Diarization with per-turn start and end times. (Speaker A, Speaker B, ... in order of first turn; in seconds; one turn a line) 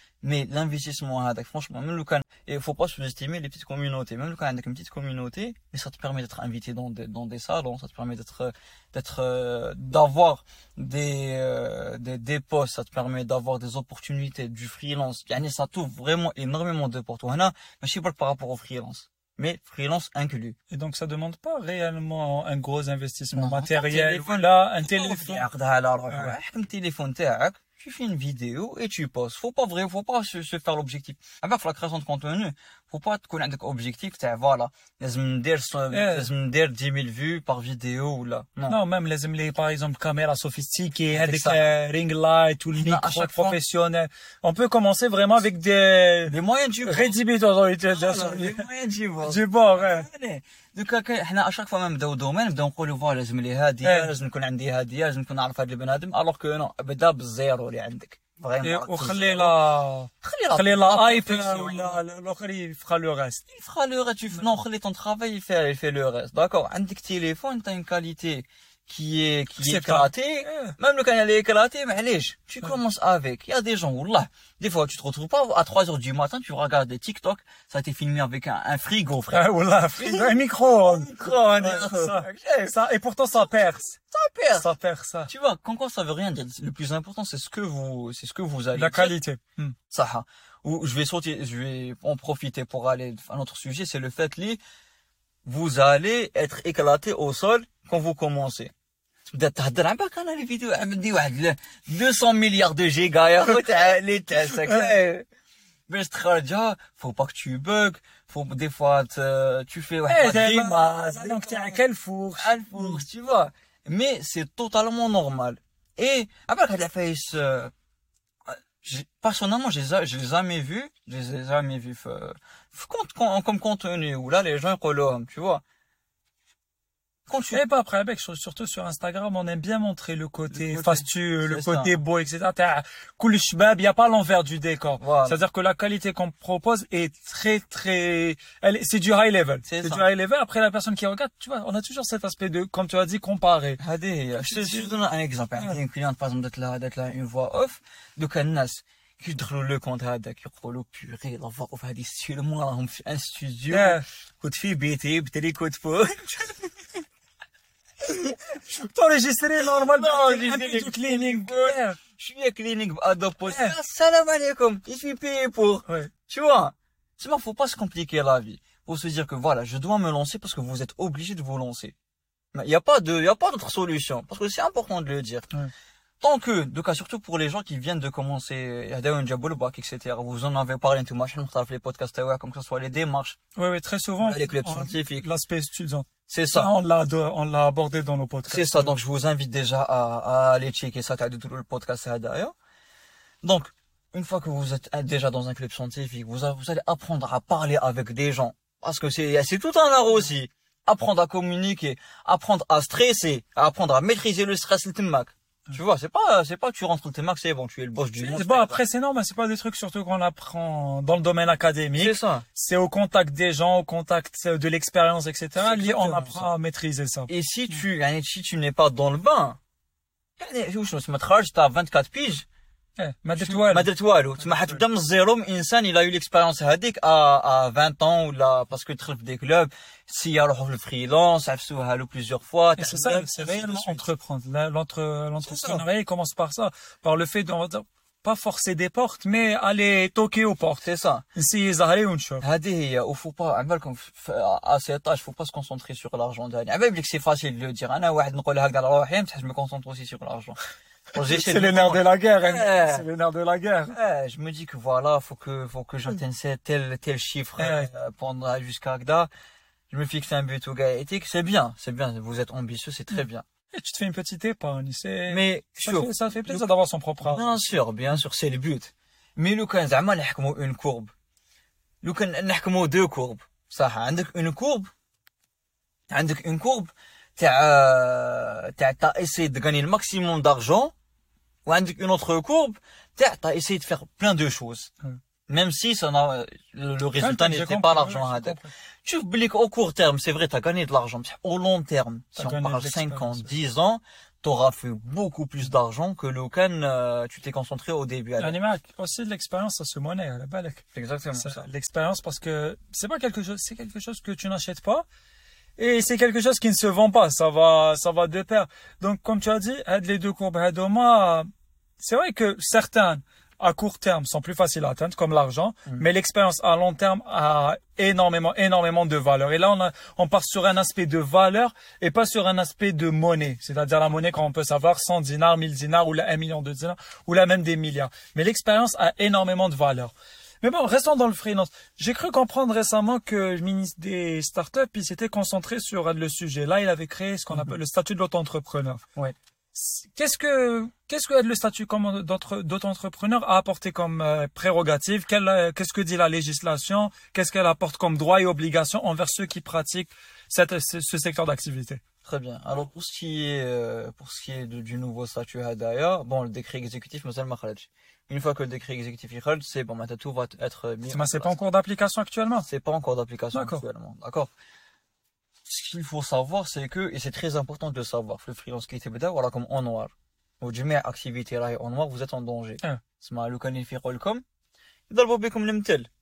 Speaker A: 0.2-20.6
Speaker B: 20.7-25.4
Speaker A: 23.3-38.8
Speaker B: 26.1-26.4
Speaker B: 35.9-36.3
Speaker B: 38.7-48.7
Speaker A: 41.1-41.6
Speaker A: 42.7-43.6
Speaker A: 46.3-47.2
Speaker A: 47.9-59.6
Speaker B: 49.2-50.1
Speaker B: 53.8-54.1
Speaker B: 58.6-63.4
Speaker A: 60.2-62.0
Speaker A: 63.5-79.4
Speaker B: 69.6-70.8
Speaker B: 79.3-84.0
Speaker A: 80.0-82.7
Speaker A: 84.1-84.7
Speaker B: 84.5-85.3
Speaker A: 85.3-89.1
Speaker B: 88.7-89.7
Speaker A: 89.9-94.6
Speaker A: 95.4-98.7
Speaker A: 99.3-105.2
Speaker B: 104.6-104.9
Speaker A: 105.9-111.8
Speaker B: 110.1-113.0
Speaker A: 112.4-117.7
Speaker A: 118.5-125.6
Speaker A: 127.3-127.6
Speaker B: 127.5-143.8
Speaker A: 130.5-131.9
Speaker A: 135.0-135.4
Speaker A: 139.7-140.1
Speaker A: 143.8-156.9
Speaker B: 144.4-144.9
Speaker B: 153.7-154.0
Speaker B: 158.3-162.0
Speaker A: 159.6-171.9
Speaker B: 163.5-163.8
Speaker A: 172.5-175.5
Speaker A: 176.2-183.4
Speaker B: 183.6-188.9
Speaker A: 184.2-185.2
Speaker A: 186.3-186.7
Speaker A: 188.5-192.5
Speaker A: 193.4-208.8
Speaker B: 208.2-217.3
Speaker A: 211.9-212.4
Speaker A: 215.6-216.5
Speaker A: 217.3-219.6
Speaker A: 220.4-222.4
Speaker B: 223.0-223.9
Speaker A: 223.3-234.1
Speaker B: 224.5-224.8
Speaker B: 232.8-240.8
Speaker A: 235.4-235.8
Speaker A: 240.8-241.2
Speaker B: 241.3-242.4
Speaker A: 242.4-250.6
Speaker A: 251.1-253.1
Speaker B: 251.2-253.9
Speaker A: 253.9-259.3
Speaker B: 257.6-257.9
Speaker A: 259.9-263.4
Speaker B: 263.7-267.5
Speaker A: 265.3-266.6
Speaker A: 267.2-271.1
Speaker A: 272.0-274.9
Speaker A: 276.1-280.9
Speaker A: 281.6-284.9
Speaker A: 285.5-298.6
Speaker B: 287.2-288.7
Speaker B: 292.4-293.5
Speaker B: 298.4-300.8
Speaker A: 300.9-301.7
Speaker B: 301.4-305.1
Speaker B: 305.8-311.5
Speaker B: 312.0-339.1
Speaker B: 339.7-352.0
Speaker A: 352.2-361.6
Speaker B: 361.1-362.6
Speaker A: 362.6-364.5
Speaker B: 363.5-363.8
Speaker A: 365.6-374.4
Speaker A: 375.1-376.1